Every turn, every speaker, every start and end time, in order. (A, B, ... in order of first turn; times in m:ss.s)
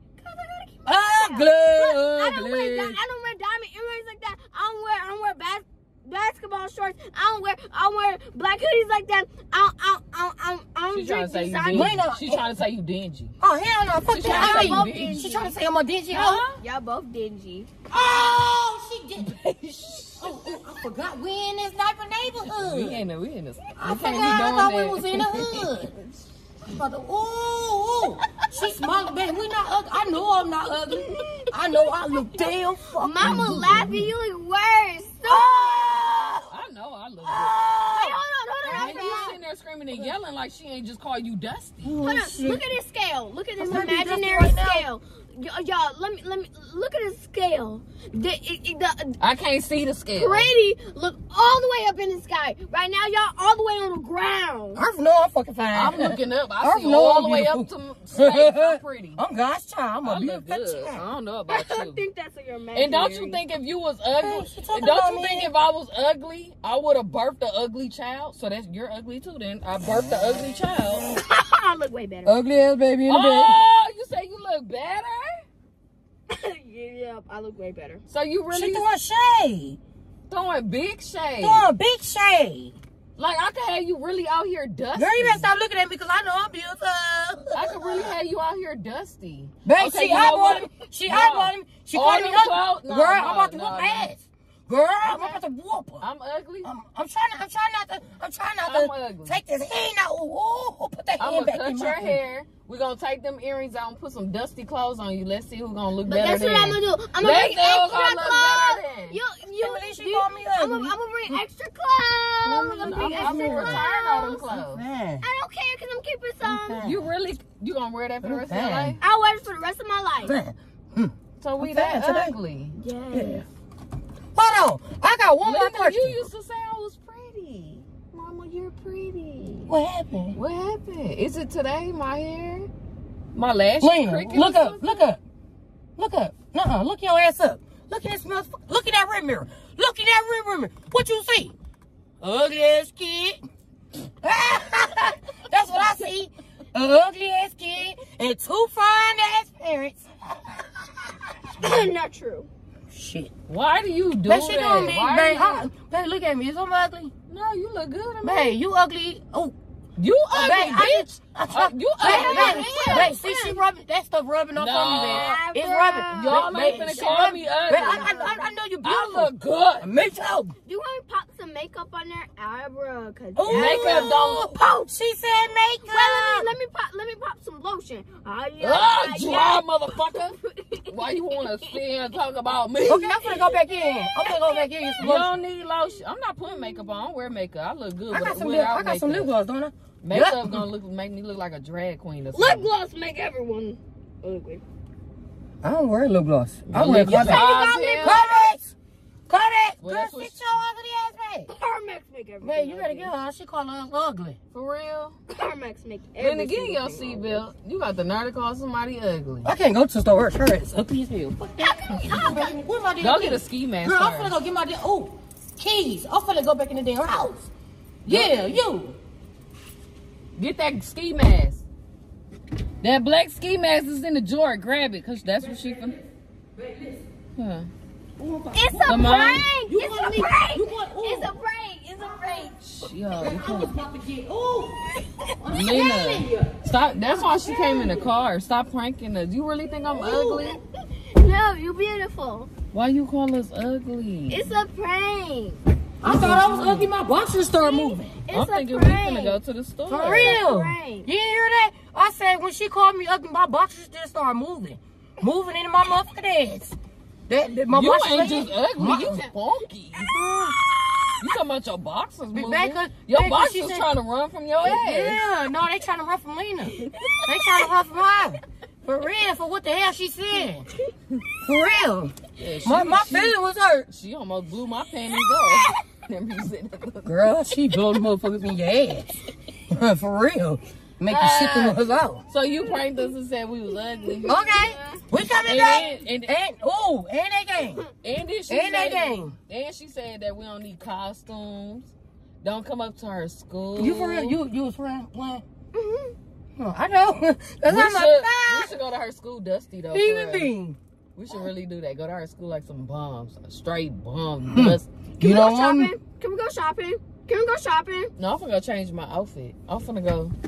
0:00.2-0:12.0 A
0:00.9-0:03.0 B
0:10.9-0:13.3 C
0:11.7-0:12.5 B
0:13.4-0:16.4 B
0:14.1-0:15.2 C
0:14.2-0:15.6 A
0:16.1-0:16.6 C
0:16.6-0:17.7 A
0:17.9-0:19.4 B
0:19.2-0:20.6 C
0:20.2-0:23.0 B
0:22.5-0:26.1 C
0:23.8-0:25.9 B
0:26.6-0:33.9 B
0:30.9-0:31.5 A
0:33.0-0:36.2 A
0:33.2-0:34.1 C
0:35.3-0:36.5 B
0:36.5-0:37.6 C
0:37.2-0:39.4 B
0:37.9-0:39.3 A
0:38.8-0:42.0 C
0:41.8-0:42.6 B
0:42.0-0:49.2 A
0:43.6-0:44.9 B
0:49.2-0:50.5 C
0:50.1-0:54.8 A
0:54.8-1:01.0 B
0:55.7-0:59.2 C
1:00.0-1:02.0 C
1:01.5-1:03.4 A
1:02.7-1:11.1 C
1:04.2-1:05.5 B
1:11.2-1:12.4 A
1:12.2-1:13.6 B
1:13.1-1:15.3 C
1:16.3-1:18.0 A
1:18.1-1:18.9 C
1:18.5-1:19.8 B
1:20.3-1:21.7 C
1:21.4-1:22.8 B
1:23.2-1:25.5 C
1:24.9-1:28.1 B
1:27.5-1:34.1 C
1:29.6-1:36.1 B
1:35.0-1:35.4 C
1:36.0-1:36.7 C
1:36.6-1:42.2 B
1:38.6-1:39.4 C
1:41.2-1:49.2 C
1:46.1-1:54.6 A
1:49.6-1:51.4 B
1:52.4-1:53.8 B
1:52.6-1:54.8 C
1:54.5-1:55.2 B
1:55.2-1:56.9 A
1:56.4-1:57.1 B
1:56.8-1:59.0 C
1:58.2-1:59.0 B
1:59.0-2:00.4 A
2:00.2-2:02.4 B
2:01.4-2:02.8 C
2:02.8-2:03.4 A
2:03.1-2:03.4 B
2:04.4-2:06.2 B
2:05.4-2:09.7 C
2:09.7-2:10.4 B
2:10.3-2:12.7 C
2:13.3-2:15.0 C
2:13.8-2:15.2 B
2:16.0-2:21.6 B
2:22.2-2:23.4 B
2:24.2-2:31.2 B
2:31.6-2:32.5 A
2:32.9-2:33.3 B
2:33.5-2:35.7 C
2:34.3-2:37.1 B
2:37.3-2:38.6 C
2:38.2-2:39.6 B
2:40.0-2:43.2 C
2:40.3-2:50.6 B
2:42.0-2:43.6 A
2:44.6-2:45.4 C
2:45.1-2:48.5 A
2:46.1-2:48.1 C
2:48.8-2:49.9 C
2:50.7-2:54.8 A
2:53.4-2:56.5 B
2:53.5-2:54.5 C
2:55.9-3:01.8 A
2:58.6-3:00.4 C
3:00.9-3:03.1 C
3:02.8-3:05.3 B
3:02.8-3:04.9 A
3:05.0-3:09.3 C
3:08.1-3:10.7 B
3:10.0-3:12.7 C
3:12.3-3:14.6 A
3:15.6-3:18.7 B
3:16.7-3:18.2 C
3:16.9-3:18.5 A
3:19.3-3:21.5 B
3:19.8-3:20.5 C
3:21.5-3:23.1 A
3:22.4-3:24.4 B
3:24.5-3:25.2 C
3:25.3-3:27.4 A
3:26.2-3:29.5 C
3:29.4-3:37.5 B
3:32.0-3:32.4 A
3:33.0-3:34.4 C
3:38.0-3:39.0 B
3:38.1-3:38.6 C
3:40.4-3:41.6 C
3:42.8-3:46.0 C
3:46.6-3:47.0 B
3:47.4-3:47.7 C
3:48.2-3:51.3 B
3:48.5-3:52.8 A
3:48.9-3:49.5 C
3:52.7-3:53.8 C
3:53.1-3:56.5 B
3:55.5-4:00.6 C
3:57.4-3:57.9 A
4:00.0-4:02.5 A
4:02.7-4:04.5 C
4:04.3-4:05.6 A
4:06.0-4:08.2 B
4:06.0-4:06.9 C
4:07.6-4:09.4 A
4:08.3-4:10.4 C
4:09.9-4:16.8 B
4:10.0-4:11.1 A
4:17.3-4:19.3 B
4:17.7-4:20.2 C
4:20.1-4:20.6 B
4:21.2-4:25.3 C
4:22.3-4:23.9 B
4:24.6-4:30.7 B
4:31.4-4:33.9 B
4:32.4-4:37.3 C
4:37.0-4:42.2 B
4:41.1-4:44.4 C
4:44.1-4:45.0 A
4:44.3-4:47.8 B
4:45.5-4:46.3 C
4:48.0-4:51.9 C
4:48.5-4:49.4 B
4:52.4-4:54.4 C
4:53.8-4:55.4 B
4:55.7-4:56.2 A
4:56.6-4:58.7 B
4:57.6-5:00.5 C
4:59.9-5:00.8 B
5:01.2-5:04.9 C
5:04.5-5:05.9 B
5:05.2-5:08.1 A
5:08.2-5:10.4 C